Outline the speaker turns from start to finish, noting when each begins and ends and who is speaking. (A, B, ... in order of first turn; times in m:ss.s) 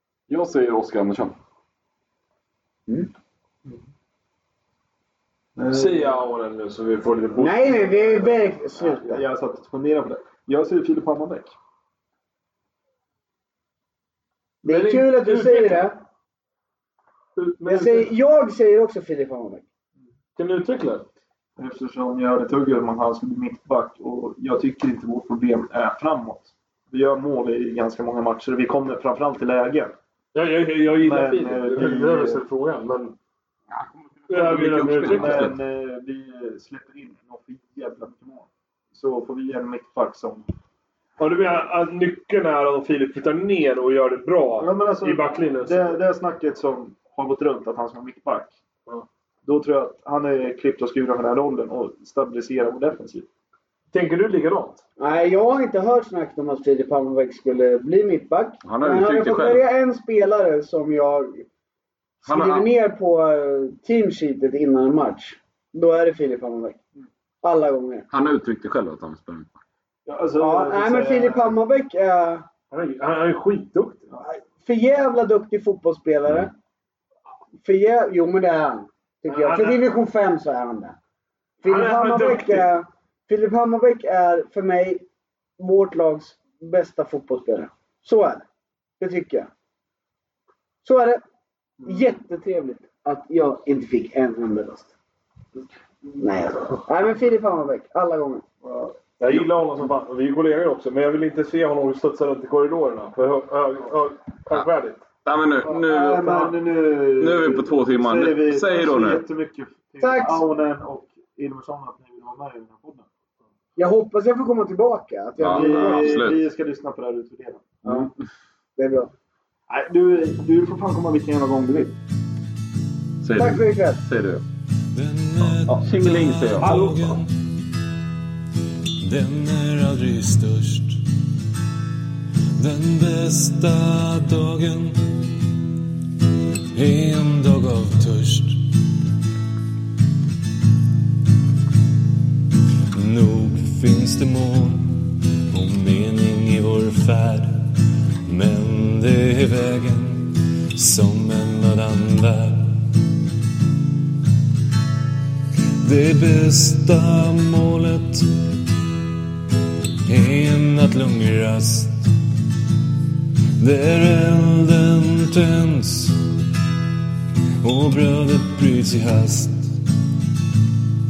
0:00.3-0:01.4 A
0:05.6-0:06.1 B
0:05.7-0:08.4 C
0:07.4-0:09.2 D
0:08.8-0:11.5 B
0:14.6-0:16.0 D
0:14.6-0:15.9 C
0:17.4-0:18.1 C
0:17.6-0:19.6 D
0:20.4-0:21.1 C
0:21.6-0:30.0 B
0:30.3-0:33.2 C
0:31.0-0:32.4 B
0:33.7-0:35.6 A
0:34.3-0:35.6 C
0:35.0-0:40.5 B
0:41.2-0:46.0 C
0:44.6-0:48.6 B
0:49.4-0:53.3 B
0:53.9-0:54.8 C
0:55.0-1:01.4 D
0:58.6-0:59.7 A
1:02.2-1:06.8 D
1:02.2-1:02.7 A
1:07.4-1:08.1 D
1:08.1-1:09.6 A
1:10.1-1:11.6 B
1:10.4-1:12.5 D
1:12.7-1:14.1 C
1:14.2-1:16.5 D
1:17.6-1:21.0 D
1:19.3-1:19.9 C
1:21.6-1:25.0 D
1:21.6-1:22.7 C
1:25.6-1:28.4 D
1:29.0-1:29.5 D
1:30.8-1:31.2 D
1:31.8-1:34.9 D
1:36.2-1:38.4 D
1:38.6-1:39.0 B
1:39.2-1:45.0 C
1:45.2-1:46.3 A
1:45.6-1:46.6 D
1:46.1-1:53.1 B
1:47.2-1:49.2 A
1:50.0-1:50.5 D
1:53.8-1:56.2 D
1:55.4-1:56.4 A
1:55.5-1:58.1 B
1:58.8-1:59.1 D
1:59.7-2:02.0 B
2:03.2-2:04.4 A
2:03.4-2:04.0 D
2:04.9-2:07.5 E
2:05.8-2:06.8 A
2:06.6-2:07.2 B
2:09.0-2:11.1 E
2:12.6-2:15.8 E
2:16.7-2:18.9 E
2:22.9-2:33.0 E
2:35.8-2:38.6 E
2:40.0-2:42.1 E
2:43.6-2:46.4 E
2:47.6-2:49.8 E